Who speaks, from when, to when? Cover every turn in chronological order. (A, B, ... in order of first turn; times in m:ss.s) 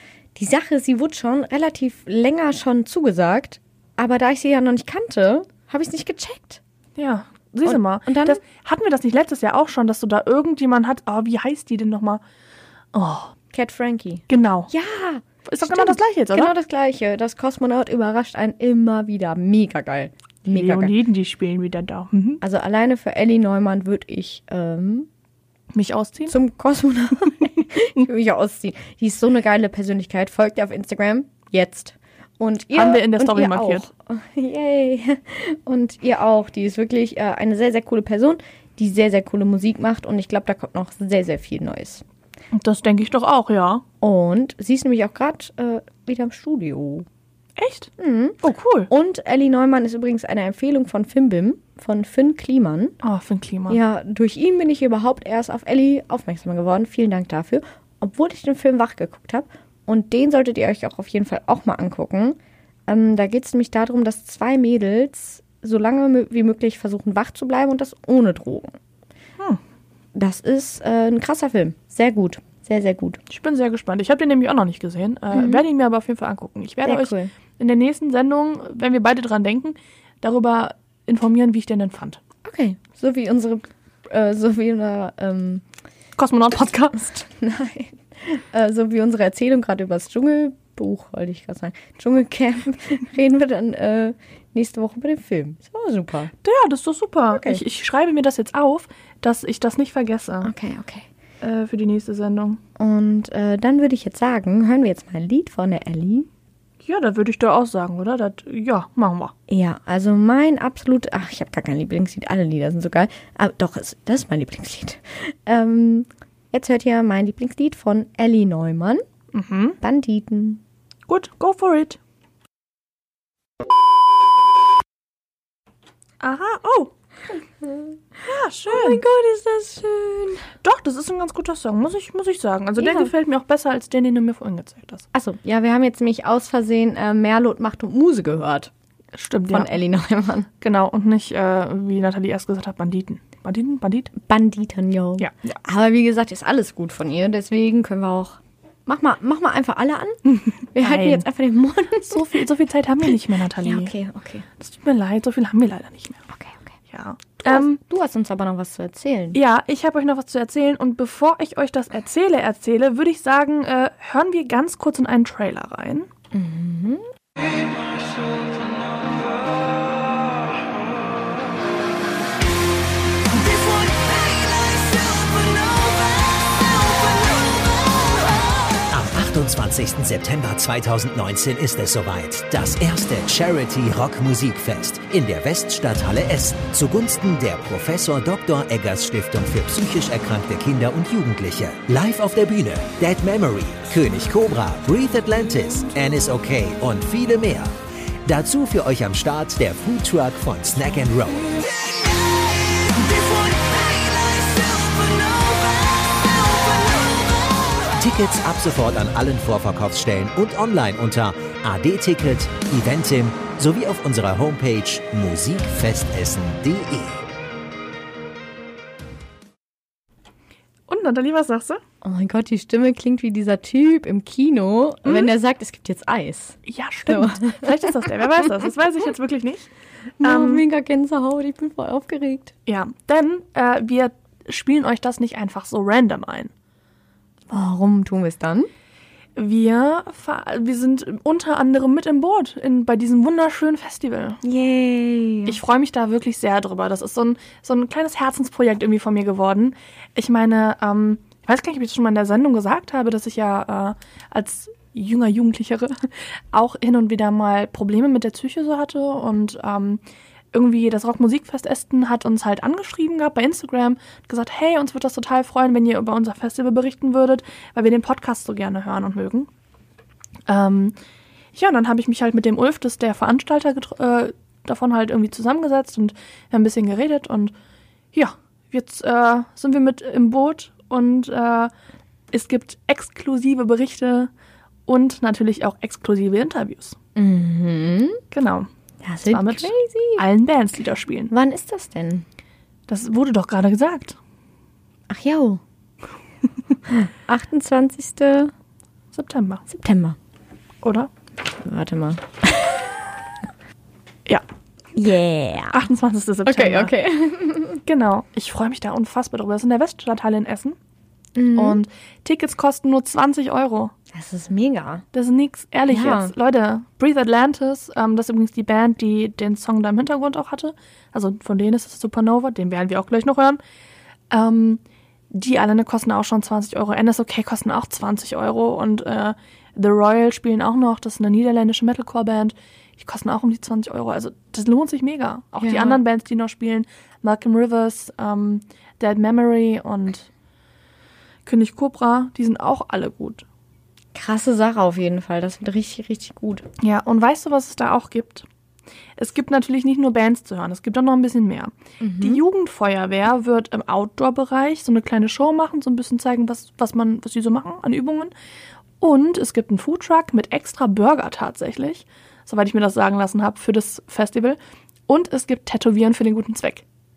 0:00.3-0:06.6 A
0:07.0-0:12.2 B
0:07.6-0:08.4 A
0:12.9-0:13.3 B
0:13.5-0:20.9 A
0:14.3-0:14.7 B
0:15.4-0:16.5 B
0:20.5-0:22.4 B
0:22.4-0:25.1 A
0:25.7-0:26.3 B
0:26.3-0:42.0 A
0:32.7-0:33.9 B
0:42.5-0:43.8 B
0:44.0-0:47.0 A
0:47.6-0:47.9 B
0:48.0-0:53.0 A
0:48.4-0:48.9 B
0:53.0-0:53.8 B
0:53.7-1:08.7 A
1:10.1-1:13.2 A
1:13.3-1:22.2 B
1:15.3-1:15.6 A
1:16.8-1:17.3 A
1:22.4-1:25.6 A
1:26.2-1:27.0 B
1:26.9-1:36.3 A
1:36.4-1:40.5 B
1:37.3-1:37.6 A
1:40.4-1:41.0 A
1:41.4-1:42.6 B
1:42.8-1:46.3 A
1:46.8-1:49.3 B
1:49.5-1:59.0 A
1:59.3-1:59.8 B
1:59.8-2:00.6 A
2:01.1-2:02.0 B
2:06.2-2:06.9 B
2:08.2-2:09.0 B
2:08.6-2:10.5 A
2:10.6-2:15.0 B
2:12.8-2:13.1 A
2:15.1-2:18.7 A
2:19.1-2:19.8 B
2:19.5-2:20.5 A
2:20.6-2:24.1 B
2:24.2-2:32.2 A
2:25.2-2:25.6 B
2:30.3-2:31.2 B
2:32.0-2:33.9 B
2:33.6-2:34.5 A
2:34.6-2:36.2 B
2:36.3-2:36.8 A
2:36.9-2:37.8 B
2:37.4-2:39.4 A
2:39.3-2:46.1 B
2:46.3-2:47.1 A
2:58.9-3:22.0 C
3:22.8-3:25.5 C
3:28.0-3:37.2 C
3:40.9-3:41.8 B
3:42.0-3:48.2 A
3:45.0-3:45.3 B
3:46.6-3:49.6 B
3:50.2-3:52.5 A
3:50.2-3:50.6 B
3:52.6-3:56.5 B
3:57.5-3:58.7 A
3:59.4-4:04.4 B
4:04.4-4:05.6 A
4:05.4-4:29.5 B
4:30.5-4:31.0 B
4:31.5-4:37.5 B
4:38.1-4:41.7 B
4:42.3-4:44.3 B
4:44.9-4:47.0 B
4:47.1-4:48.2 A
4:48.3-4:48.7 B
4:49.0-4:50.2 A
4:49.3-4:51.3 B
4:51.3-4:52.2 A
4:52.9-4:54.2 B
4:55.1-4:55.6 A
4:56.9-4:58.5 A
4:59.1-4:59.6 B
4:59.7-5:00.2 A
5:00.8-5:01.1 B
5:01.6-5:02.9 A
5:05.0-5:05.8 A
5:05.7-5:06.9 B
5:06.4-5:07.8 A
5:07.8-5:10.8 B
5:11.4-5:11.8 A
5:11.5-5:13.9 B
5:14.1-5:15.0 A
5:15.1-5:23.6 B
5:15.9-5:16.3 A
5:24.3-5:40.3 B
5:35.6-5:36.0 A
5:41.4-5:43.4 B
5:44.1-5:46.7 A
5:46.8-5:48.4 B
5:49.2-5:58.3 B
5:52.0-5:52.4 A
5:59.0-6:06.8 B